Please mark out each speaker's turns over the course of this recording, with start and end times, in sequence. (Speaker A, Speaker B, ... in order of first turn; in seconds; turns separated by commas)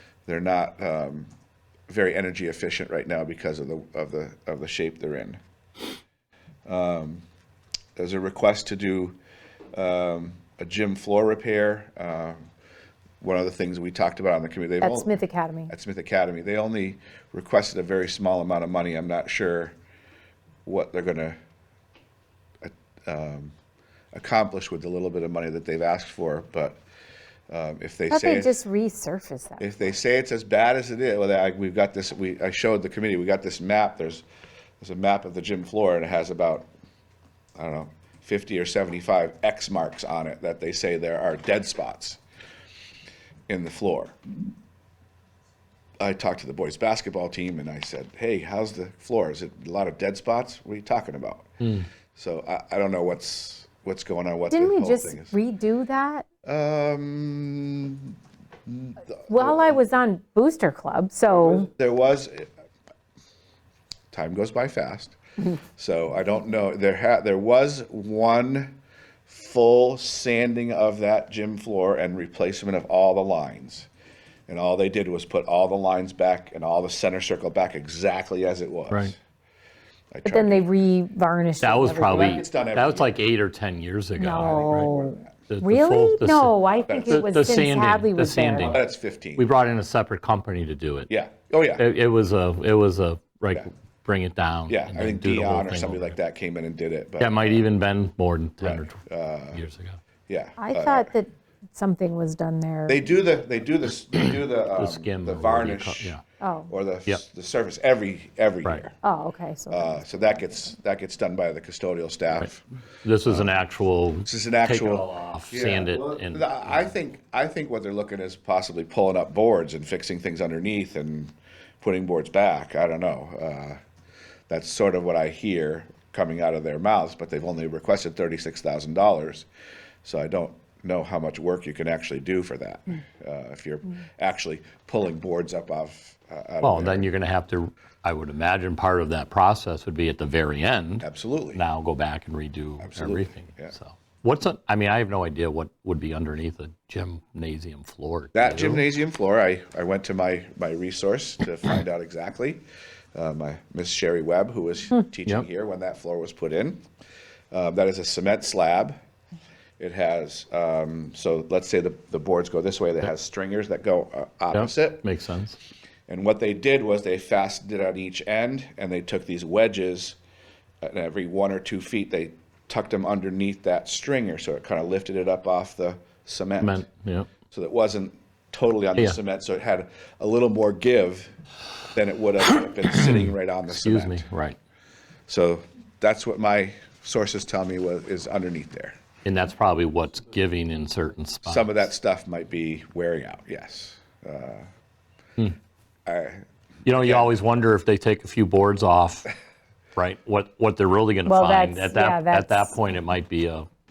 Speaker A: 0.2-1.3, Speaker A: 1.9-5.4, Speaker A: 6.7-7.2, Speaker A: 8.0-9.2, Speaker A: 9.7-12.4, Speaker A: 13.2-15.2, Speaker B: 14.8-15.7, Speaker A: 15.7-19.7, Speaker A: 20.6-21.4, Speaker A: 22.6-23.5, Speaker A: 24.1-26.8, Speaker A: 27.5-28.6, Speaker B: 28.1-29.6, Speaker A: 29.6-34.2, Speaker A: 34.8-36.7, Speaker A: 37.5-42.2, Speaker A: 43.5-44.1, Speaker A: 46.0-55.4, Speaker C: 51.6-51.9, Speaker B: 54.5-56.2, Speaker A: 56.4-58.1, Speaker A: 58.7-59.8, Speaker B: 59.3-61.7, Speaker A: 61.3-62.5, Speaker A: 64.1-73.9, Speaker A: 74.5-79.2, Speaker A: 80.1-80.7, Speaker B: 80.2-82.4, Speaker C: 81.6-84.9, Speaker A: 82.0-83.2, Speaker B: 84.2-88.8, Speaker A: 84.5-85.3, Speaker C: 85.5-88.8, Speaker A: 86.9-87.3, Speaker A: 88.6-89.5, Speaker C: 89.4-91.1, Speaker A: 91.1-91.9, Speaker C: 91.8-96.2, Speaker A: 94.7-97.7, Speaker C: 97.2-100.0, Speaker A: 98.6-99.6, Speaker A: 100.3-101.1, Speaker B: 100.6-103.0, Speaker A: 102.9-106.2, Speaker C: 104.7-106.2, Speaker B: 106.4-106.7, Speaker A: 106.7-108.9, Speaker B: 109.0-110.0, Speaker A: 109.7-112.6, Speaker C: 113.0-116.9, Speaker A: 114.2-123.8, Speaker A: 124.5-129.5, Speaker A: 130.0-137.1, Speaker C: 136.6-148.8, Speaker A: 141.0-141.6, Speaker A: 142.8-143.7, Speaker A: 148.3-152.6, Speaker A: 153.1-156.8, Speaker A: 157.5-159.0, Speaker A: 159.8-165.1, Speaker C: 164.5-165.6, Speaker A: 166.1-170.2, Speaker A: 170.8-176.8, Speaker C: 176.6-177.3, Speaker A: 177.5-181.3, Speaker A: 181.9-184.2, Speaker C: 182.9-184.6, Speaker A: 185.3-188.9, Speaker C: 189.2-191.7, Speaker A: 191.4-194.7, Speaker A: 196.1-197.3, Speaker C: 196.8-199.3, Speaker C: 199.9-203.7, Speaker B: 201.2-202.7